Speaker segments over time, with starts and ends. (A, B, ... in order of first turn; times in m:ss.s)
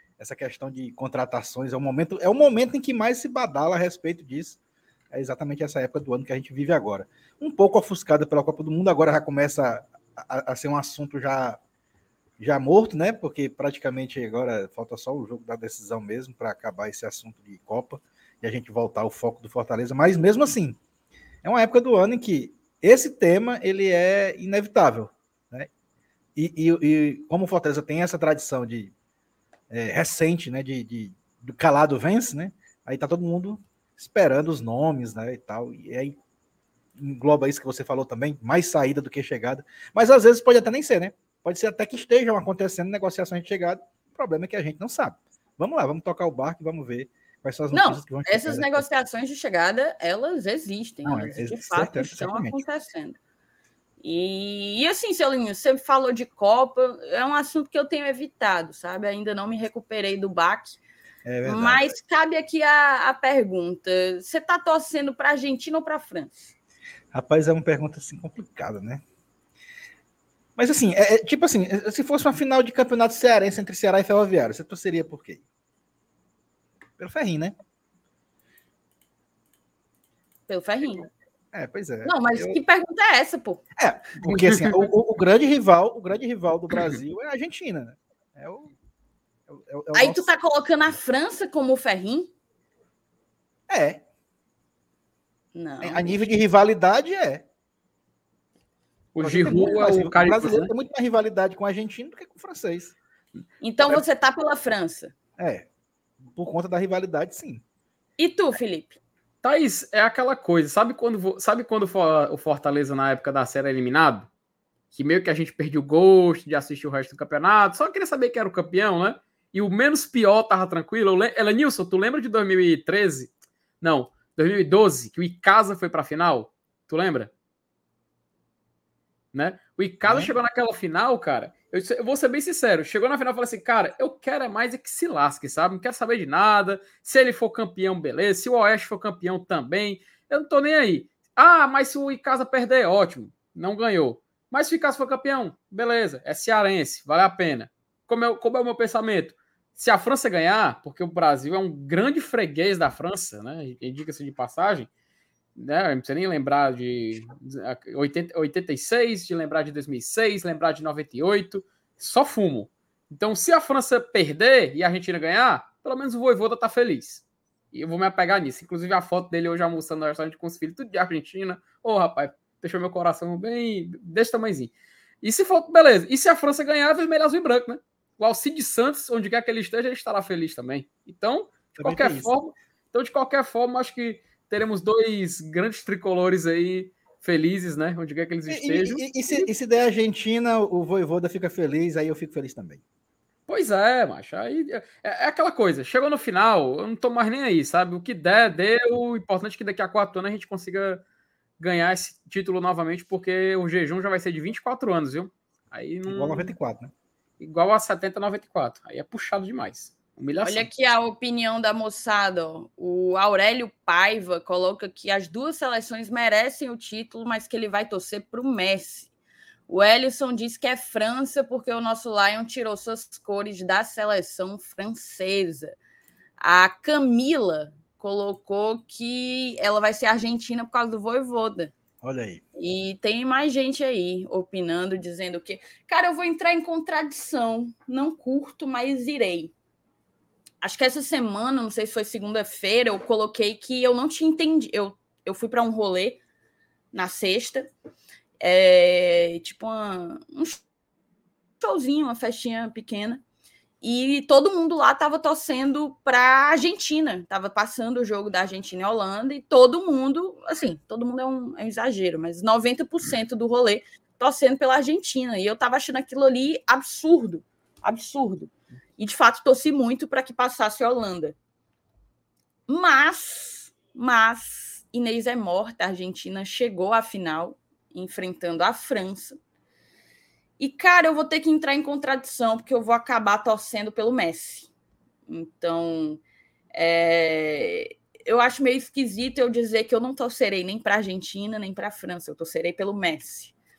0:00.2-0:04.6 A
0:05.1-0:11.6 A
0:12.4-0:20.8 A
0:21.4-0:25.7 A
0:26.4-0:28.9 A
0:29.7-0:36.2 A
0:37.0-0:48.8 A
0:47.7-0:53.2 B
0:51.0-0:52.6 A
0:54.0-1:00.8 B
1:01.2-1:01.9 A
1:01.4-1:06.6 B
1:07.1-1:09.0 A
1:10.6-1:15.4 A
1:17.0-1:17.6 A
1:20.5-1:21.1 B
1:21.5-1:22.6 A
1:22.0-1:23.6 B
1:23.8-1:28.7 A
1:24.3-1:24.8 C
1:29.5-1:30.3 A
1:29.9-1:32.3 B
1:33.7-1:34.0 A
1:35.5-1:36.2 B
1:35.8-1:37.4 A
1:39.2-1:40.7 C
1:39.2-1:43.0 A
1:43.6-1:45.1 B
1:45.4-1:45.7 A
1:46.2-1:47.6 A
1:48.2-1:49.0 B
1:49.4-1:54.3 C
1:54.9-2:07.3 C
2:09.3-2:34.9 C
2:10.0-2:10.3 A
2:35.6-3:09.5 C
3:01.8-3:02.3 A
3:08.5-3:12.8 A
3:13.5-3:21.0 C
3:21.6-3:26.5 C
3:26.1-3:26.9 A
3:27.4-3:30.7 C
3:30.4-3:39.1 B
3:39.7-3:45.8 B
3:46.4-3:51.7 B
3:52.0-3:52.4 A
3:52.6-3:59.5 B
4:00.6-4:06.2 B
4:06.9-4:07.7 B
4:08.4-4:10.6 B
4:11.6-4:13.2 B
4:13.8-4:31.4 B
4:32.7-4:39.4 B
4:40.6-4:44.7 B
4:45.3-4:46.2 B
4:46.7-4:53.5 B